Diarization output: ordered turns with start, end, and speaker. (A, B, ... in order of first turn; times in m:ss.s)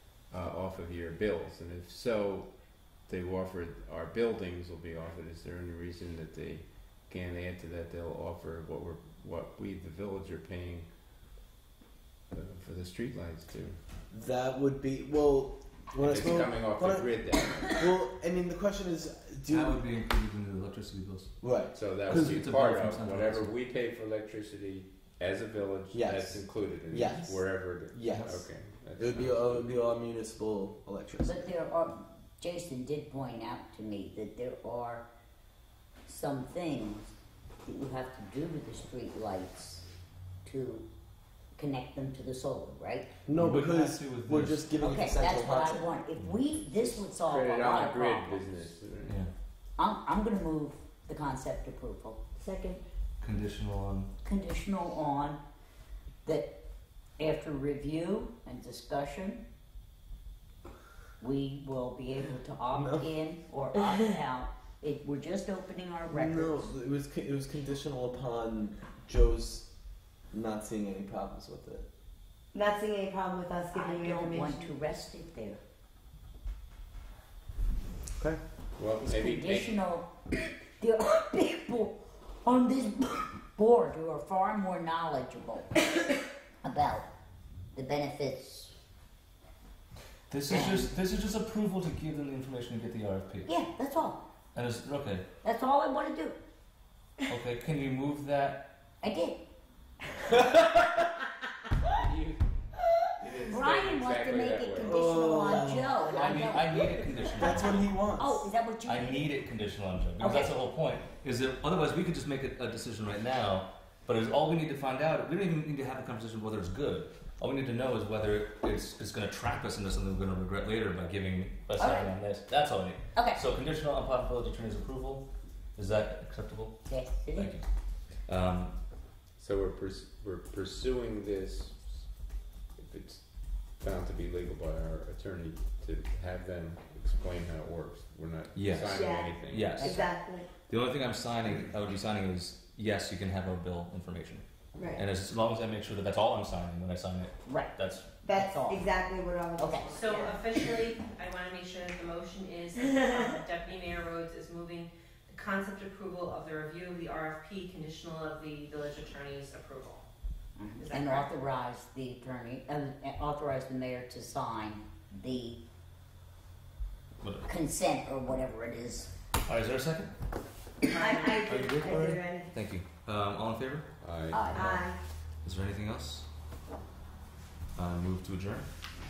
0:00.3-0:02.5 A
0:03.1-0:10.9 A
0:12.3-0:13.8 A
0:14.1-0:19.8 B
0:16.0-0:17.6 A
0:19.5-0:21.3 C
0:21.4-0:22.4 B
0:21.7-0:29.7 A
0:22.1-0:23.5 C
0:25.9-0:28.5 B
0:28.1-0:28.4 C
0:29.0-0:31.4 B
0:31.2-0:35.0 D
0:36.1-0:37.1 D
0:37.6-0:39.8 D
0:40.4-0:40.8 D
0:41.6-0:43.1 D
0:43.3-0:45.9 B
0:43.4-0:45.0 C
0:44.8-0:48.5 D
0:46.8-0:49.2 A
0:49.8-0:52.2 D
0:52.4-0:52.8 E
0:53.2-0:54.1 C
0:54.2-0:55.4 D
0:57.2-0:59.4 D
1:01.2-1:06.7 D
1:02.7-1:03.1 B
1:06.1-1:09.7 B
1:10.3-1:11.8 B
1:12.5-1:14.7 E
1:13.7-1:15.6 D
1:18.8-1:19.8 A
1:19.0-1:25.7 D
1:26.6-1:27.0 D
1:27.7-1:28.7 D
1:30.3-1:33.5 C
1:30.5-1:30.9 D
1:33.5-1:34.2 D
1:34.5-1:35.3 C
1:35.4-1:36.4 D
1:37.3-1:38.7 C
1:39.0-1:39.4 D
1:40.5-1:40.8 B
1:41.8-1:42.4 A
1:43.2-1:45.1 A
1:43.4-1:49.3 D
1:44.8-1:46.8 B
1:45.2-1:45.6 E
1:46.0-1:48.0 C
1:47.3-1:48.5 B
1:48.8-2:08.7 C
1:50.2-1:50.5 D
2:01.8-2:02.1 D
2:06.9-2:07.6 D
2:09.4-2:12.1 A
2:12.8-2:13.3 A
2:13.8-2:19.9 A
2:18.5-2:28.1 C
2:18.9-2:20.5 E
2:24.8-2:25.0 E
2:27.5-2:27.8 D
2:28.2-2:30.5 E
2:28.3-2:28.8 D
2:29.6-2:29.9 D
2:30.0-2:40.0 F
2:32.8-2:33.3 E
2:40.6-2:45.6 D
2:40.8-2:41.3 F
2:47.2-2:47.5 C
2:47.5-2:49.1 D
2:49.5-2:50.1 C
2:50.9-2:52.5 E
2:51.4-2:54.8 C
2:54.0-2:54.6 A
2:54.4-2:55.0 E
2:55.4-2:56.3 C
2:57.8-2:58.7 C